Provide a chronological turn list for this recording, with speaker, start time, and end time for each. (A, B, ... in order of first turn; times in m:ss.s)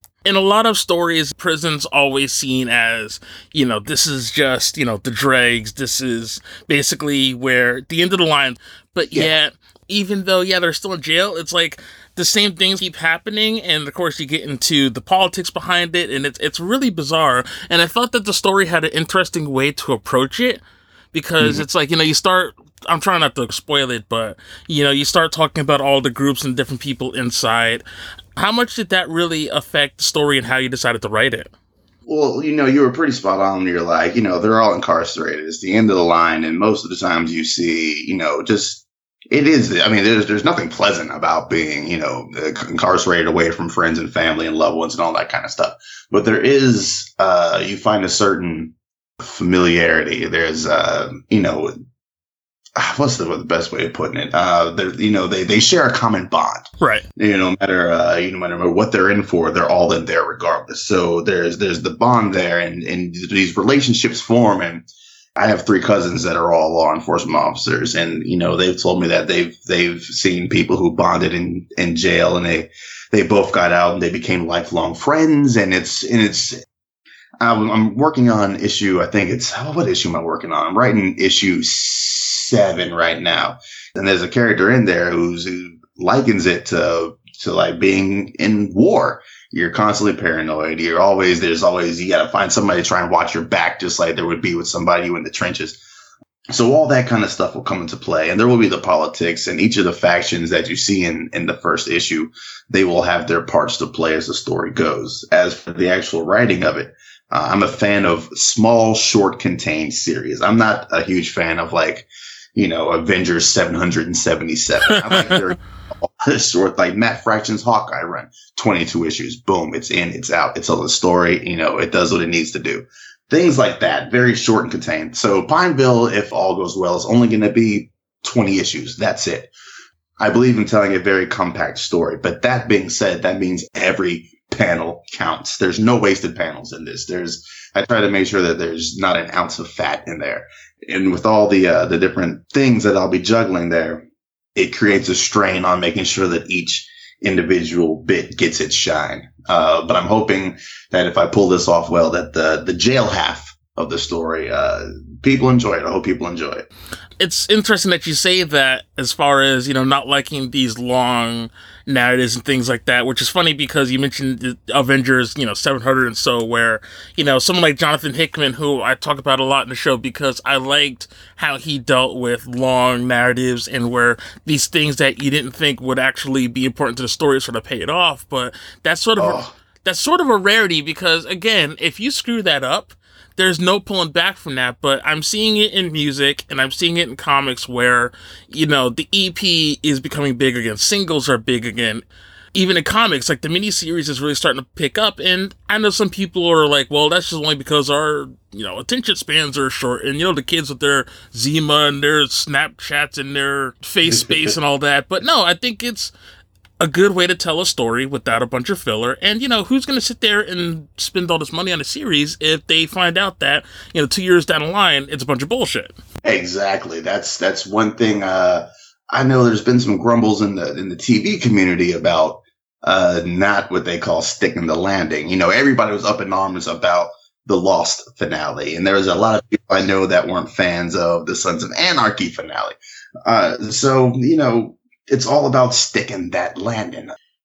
0:00.2-0:20.6 A
0:21.1-0:27.8 A
0:21.4-0:21.6 B
0:28.4-0:31.5 A
0:32.0-0:51.7 B
0:52.8-1:04.8 B
1:05.4-1:16.6 B
1:17.4-1:35.8 B
1:36.5-2:09.5 B
1:55.0-1:55.3 A
2:10.2-2:36.7 B
2:37.2-3:26.1 A
2:59.2-2:59.5 B
3:26.8-3:35.9 A
3:36.2-3:57.1 B